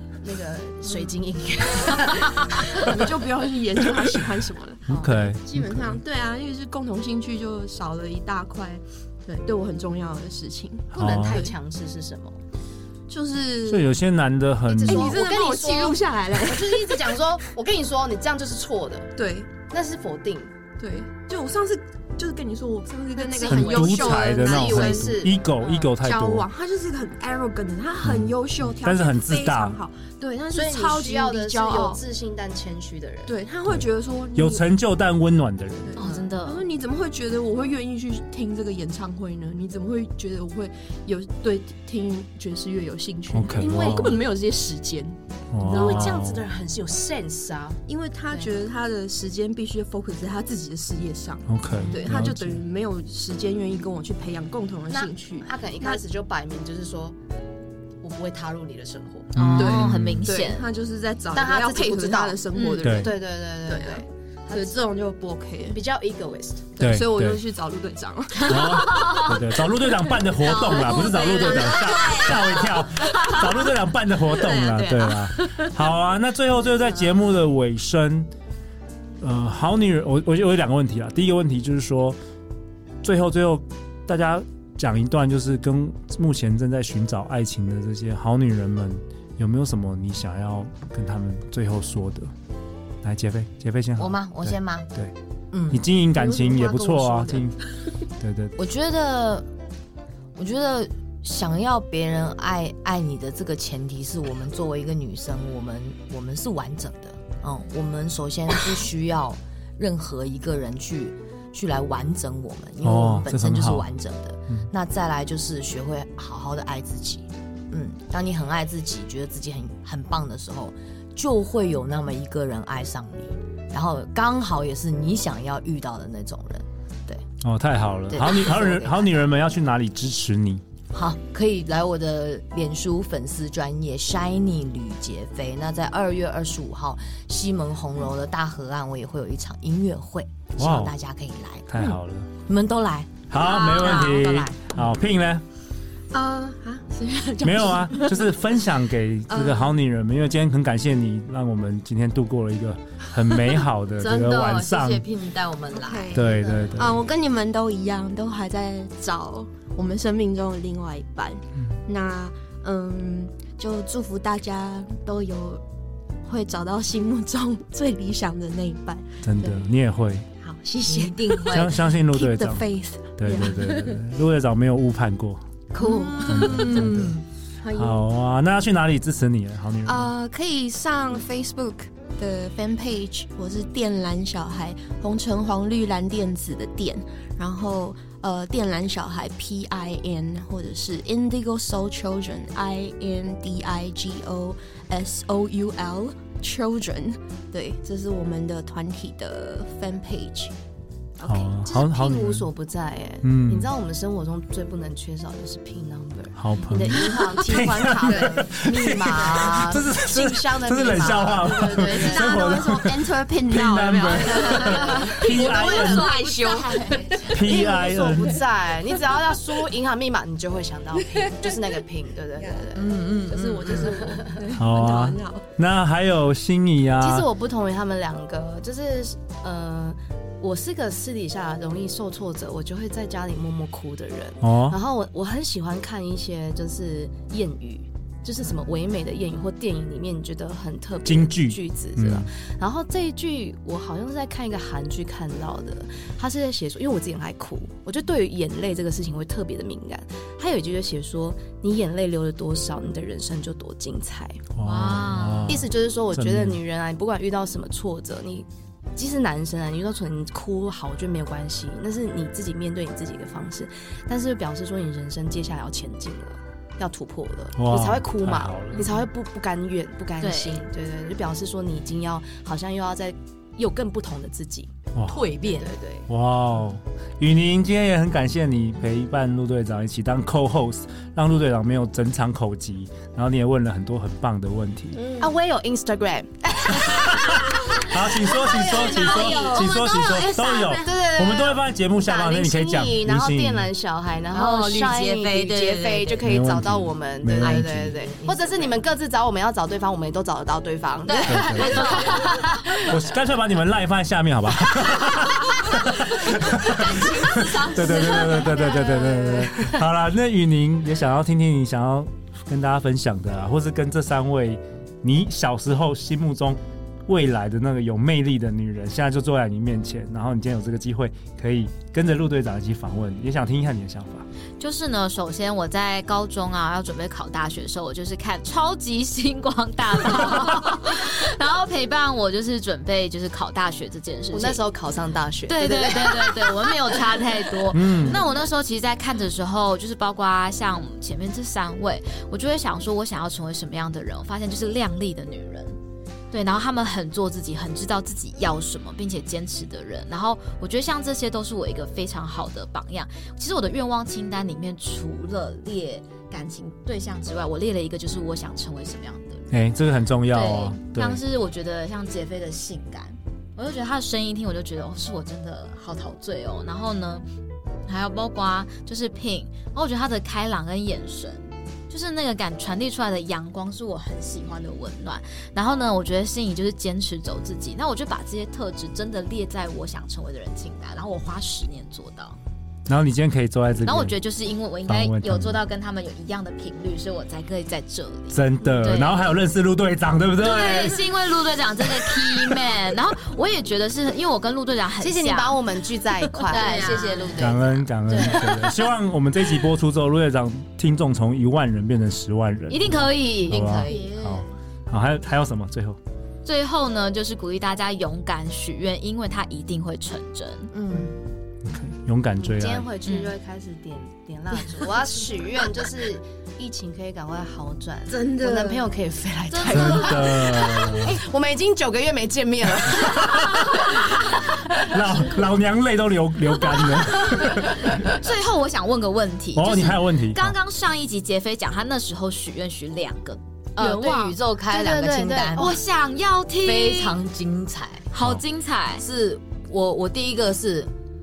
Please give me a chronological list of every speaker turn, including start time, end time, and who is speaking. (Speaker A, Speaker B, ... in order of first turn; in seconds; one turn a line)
Speaker A: 0.2-3.0
Speaker B: 2.7-11.5
Speaker A: 4.9-5.3
Speaker C: 4.9-6.0
Speaker A: 10.9-12.4
Speaker C: 10.9-11.5
Speaker B: 13.1-13.9
Speaker C: 13.7-15.2
Speaker A: 14.7-19.1
Speaker B: 14.8-17.1
Speaker B: 19.2-19.5
Speaker A: 19.7-20.5
Speaker B: 20.8-25.3
Speaker A: 23.1-25.9
Speaker C: 23.4-26.5
Speaker B: 25.9-32.0
Speaker C: 28.0-29.8
Speaker A: 30.5-33.4
Speaker B: 33.3-34.7
Speaker C: 34.4-36.0
Speaker B: 35.9-45.2
Speaker D: 36.0-36.6
Speaker A: 36.0-36.3
Speaker C: 43.3-44.2
Speaker A: 43.5-44.3
Speaker C: 45.5-46.4
Speaker A: 45.6-48.5
Speaker B: 45.7-46.2
Speaker B: 47.9-56.0
Speaker C: 51.5-52.6
Speaker A: 54.9-57.2
Speaker A: 58.0-59.5
Speaker C: 59.4-60.4
Speaker D: 59.4-60.6
Speaker B: 59.5-65.8
Speaker A: 61.3-64.8
Speaker D: 62.5-62.8
Speaker C: 62.8-63.1
Speaker A: 65.7-66.7
Speaker B: 66.8-69.4
Speaker C: 66.8-67.4
Speaker C: 68.4-78.3
Speaker D: 69.0-69.2
Speaker B: 69.9-73.7
Speaker D: 70.4-72.3
Speaker B: 74.3-75.8
Speaker C: 79.2-82.2
Speaker C: 83.0-92.3
Speaker C: 93.0-95.1
Speaker E: 94.0-94.9
Speaker E: 95.5-95.9
Speaker C: 95.7-97.6
Speaker B: 96.1-97.5
Speaker C: 98.2-98.6
Speaker E: 98.6-99.5
Speaker E: 100.4-127.2
Speaker C: 112.8-113.9
Speaker C: 127.4-130.6
Speaker A: 128.1-129.2
Speaker E: 130.9-141.7
Speaker C: 140.6-140.9
Speaker C: 141.7-142.3
Speaker E: 142.5-144.7
Speaker C: 143.3-145.4
Speaker B: 143.7-144.2
Speaker B: 146.1-148.3
Speaker C: 147.4-155.1
Speaker B: 149.3-149.7
Speaker E: 154.0-156.5
Speaker B: 155.7-165.6
Speaker C: 156.1-157.0
Speaker B: 166.2-169.6
Speaker C: 169.2-170.3
Speaker B: 170.4-174.0
Speaker E: 170.8-171.7
Speaker C: 171.5-175.4
Speaker B: 175.7-177.0
Speaker E: 175.8-177.2
Speaker C: 176.3-177.1
Speaker B: 177.6-178.0
Speaker C: 177.7-180.1
Speaker B: 179.8-200.5
Speaker C: 201.2-202.5
Speaker A: 201.2-212.7
Speaker C: 203.2-203.7
Speaker C: 206.4-216.2
Speaker B: 207.1-208.5
Speaker B: 211.4-217.7
Speaker A: 214.5-215.1
Speaker D: 215.8-217.1
Speaker A: 217.1-222.9
Speaker C: 217.3-218.4
Speaker B: 221.0-221.8
Speaker B: 222.4-225.4
Speaker E: 222.8-224.0
Speaker A: 223.7-224.4
Speaker C: 224.6-227.3
Speaker A: 227.0-254.4
Speaker C: 234.4-234.8
Speaker C: 241.0-242.3
Speaker C: 254.6-256.6
Speaker D: 254.6-255.7
Speaker A: 255.5-274.8
Speaker C: 267.6-268.8
Speaker D: 268.8-269.1
Speaker D: 270.2-270.6
Speaker C: 274.9-275.2
Speaker E: 275.0-275.7
Speaker A: 275.4-276.1
Speaker C: 276.1-285.1
Speaker A: 285.1-287.9
Speaker C: 286.7-293.7
Speaker E: 288.4-290.8
Speaker D: 289.1-290.5
Speaker A: 290.8-303.0
Speaker E: 294.3-296.3
Speaker C: 296.2-298.0
Speaker E: 297.4-298.8
Speaker E: 301.1-302.5
Speaker C: 301.3-302.0
Speaker C: 302.8-324.3
Speaker E: 306.8-308.4
Speaker B: 307.3-309.6
Speaker D: 324.6-334.6
Speaker A: 334.3-337.2
Speaker D: 335.5-345.8
Speaker C: 337.7-338.2
Speaker D: 346.3-359.5
Speaker C: 359.5-361.2
Speaker D: 360.3-367.2
Speaker D: 367.9-382.4
Speaker C: 382.9-384.1
Speaker D: 383.8-389.4
Speaker C: 384.9-385.6
Speaker C: 388.3-391.0
Speaker D: 390.4-395.6
Speaker A: 395.0-397.0
Speaker D: 396.3-398.8
Speaker E: 396.5-397.7
Speaker B: 396.8-397.1
Speaker C: 397.4-406.0
Speaker D: 402.7-403.9
Speaker E: 403.5-404.2
Speaker B: 403.9-404.5
Speaker D: 406.4-410.7
Speaker E: 410.7-411.2
Speaker C: 411.6-412.9
Speaker A: 412.4-424.9
Speaker D: 413.0-413.3
Speaker B: 418.1-418.9
Speaker D: 419.5-421.1
Speaker C: 419.7-421.2
Speaker C: 422.9-423.8
Speaker C: 424.8-428.0
Speaker D: 426.8-434.4
Speaker C: 429.5-430.6
Speaker E: 433.8-435.8
Speaker A: 434.7-435.8
Speaker D: 435.5-437.2
Speaker E: 436.6-438.1
Speaker D: 438.1-439.0
Speaker C: 438.2-438.4
Speaker E: 439.0-440.9